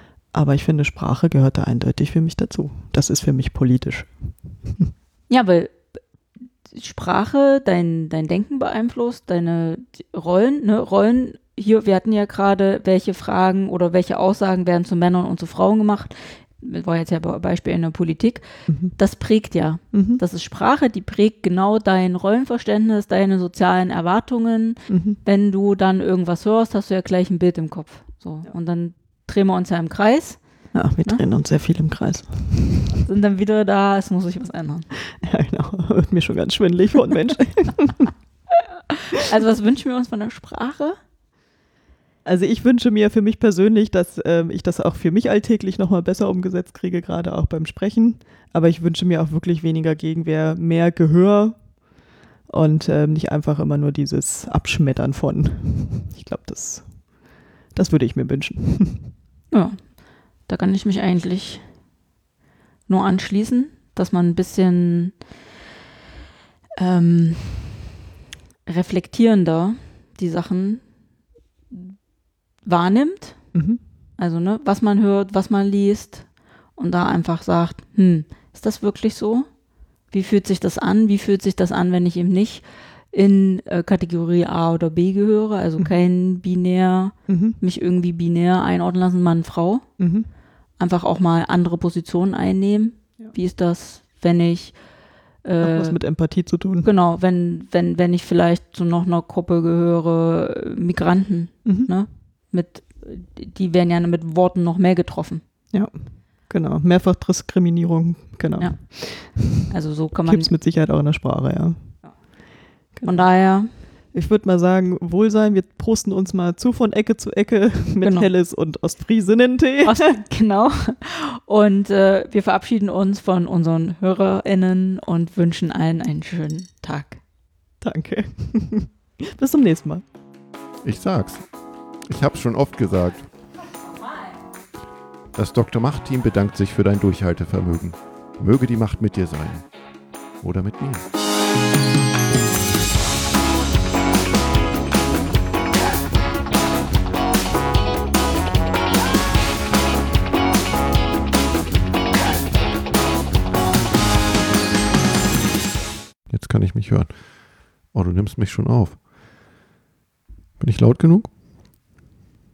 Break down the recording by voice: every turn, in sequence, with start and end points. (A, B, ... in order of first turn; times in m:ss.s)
0:00.3-0:04.9 A
0:05.3-0:06.0 B
0:06.7-0:31.2 B
0:18.7-0:19.0 A
0:19.9-0:20.2 A
0:24.9-0:25.2 A
0:30.7-0:33.0 A
0:33.0-0:34.9 B
0:35.1-0:38.1 A
0:38.9-0:41.0 B
0:42.2-0:51.7 A
0:52.5-0:57.1 A
0:57.7-0:59.1 A
0:59.5-1:01.6 B
1:02.9-1:05.2 B
1:06.8-1:07.8 B
1:08.6-1:10.9 B
1:12.6-1:13.6 B
1:13.5-1:13.8 A
1:14.2-1:19.5 B
1:20.1-1:30.0 B
1:27.3-1:27.6 A
1:30.0-1:30.3 A
1:30.8-1:34.9 B
1:35.4-1:36.2 B
1:35.6-1:36.9 A
1:36.8-1:45.4 B
1:41.6-1:41.9 A
1:45.7-1:49.7 A
1:48.6-1:50.5 B
1:50.2-1:52.0 A
1:52.9-1:53.7 B
1:52.9-1:53.3 A
1:54.1-2:00.1 A
1:58.0-1:58.3 B
1:59.8-2:07.2 B
2:07.8-2:10.0 A
2:10.8-2:11.5 C
2:12.1-2:13.3 C
2:15.3-2:19.7 C
2:20.4-2:21.1 C
2:36.3-2:39.1 C
2:40.6-2:41.4 C